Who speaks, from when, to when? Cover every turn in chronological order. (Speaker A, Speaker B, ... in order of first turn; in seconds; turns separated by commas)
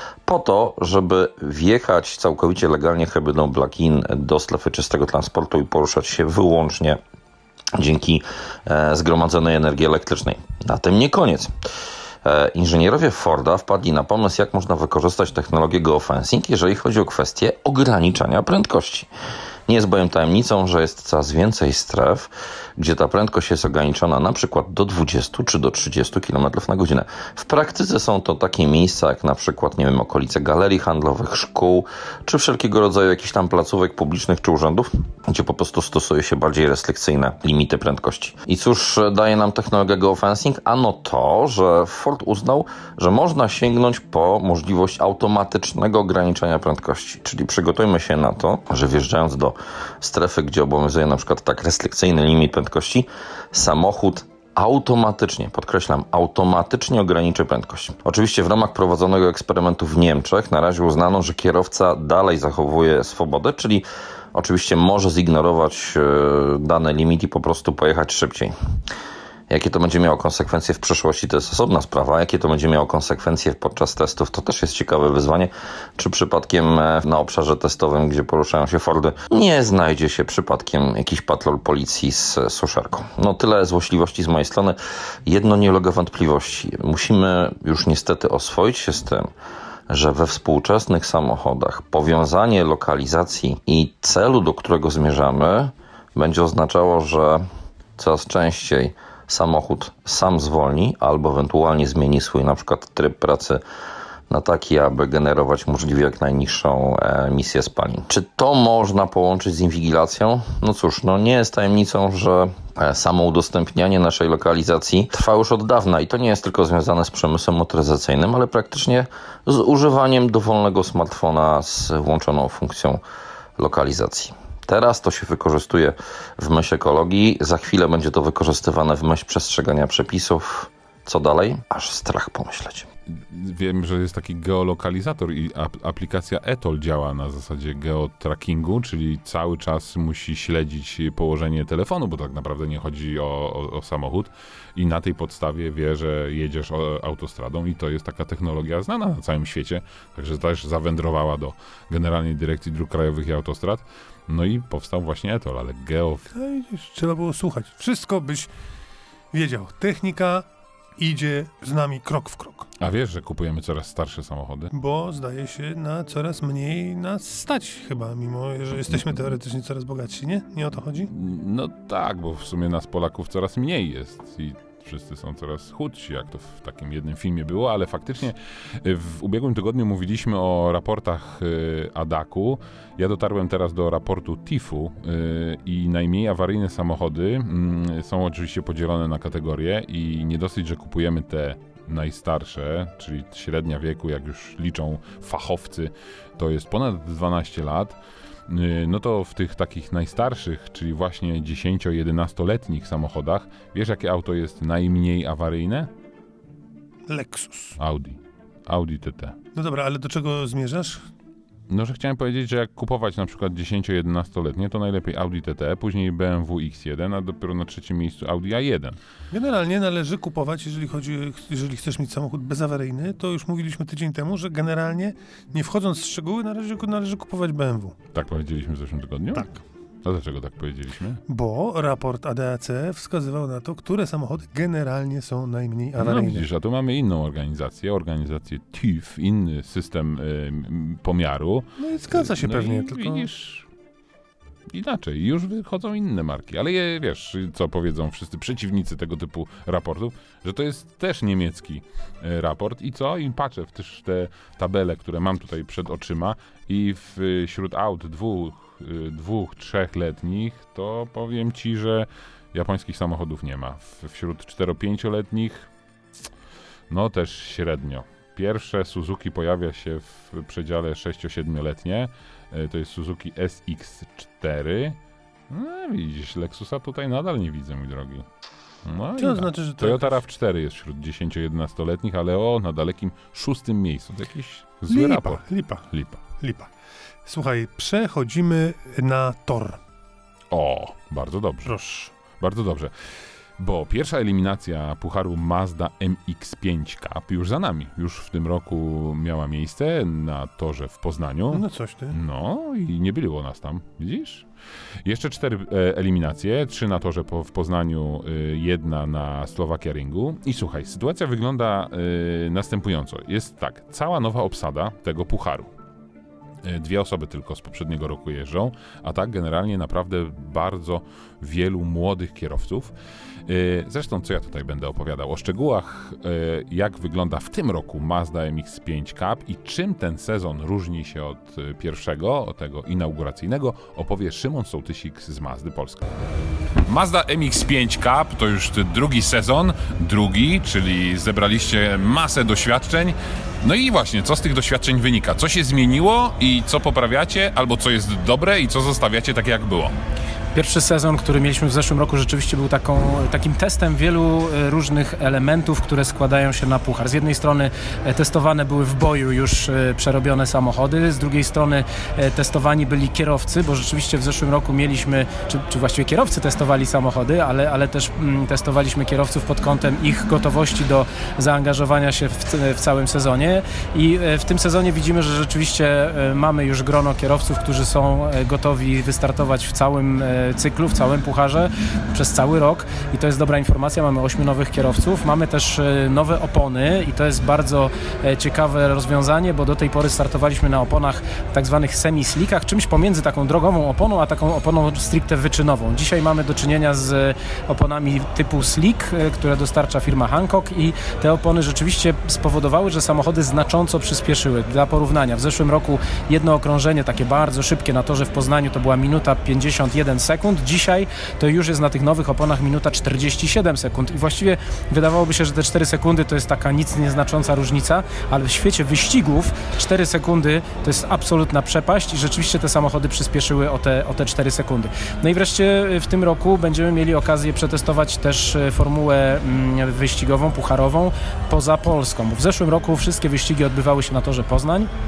Speaker A: 0.2-7.0, Speaker A: 7.8-11.5, Speaker A: 12.2-19.1, Speaker A: 19.7-68.5, Speaker A: 69.5-89.3, Speaker A: 89.9-97.4, Speaker A: 98.0-103.6, Speaker A: 104.3-123.0, Speaker A: 123.6-132.9, Speaker B: 133.1-156.3, Speaker C: 156.3-158.5, Speaker C: 159.3-160.5, Speaker C: 161.0-162.7, Speaker B: 162.8-164.7, Speaker C: 164.7-171.1, Speaker B: 171.1-205.9, Speaker C: 207.1-207.8, Speaker B: 207.8-209.4, Speaker C: 209.5-211.1, Speaker B: 211.7-219.0, Speaker C: 219.3-227.9, Speaker B: 228.1-229.5, Speaker C: 229.3-229.6, Speaker B: 230.0-231.2, Speaker C: 231.3-236.5, Speaker B: 236.0-243.7, Speaker C: 241.8-243.3, Speaker B: 244.7-265.7, Speaker B: 266.9-275.0, Speaker B: 275.5-278.3, Speaker B: 278.8-286.2, Speaker C: 279.2-280.1, Speaker C: 284.9-286.7, Speaker C: 287.2-289.8, Speaker B: 290.5-291.7, Speaker C: 291.6-292.1, Speaker B: 292.3-304.4, Speaker C: 301.5-302.2, Speaker B: 305.0-315.7, Speaker B: 316.6-322.9, Speaker B: 323.4-336.1, Speaker B: 336.8-350.0, Speaker D: 350.5-434.9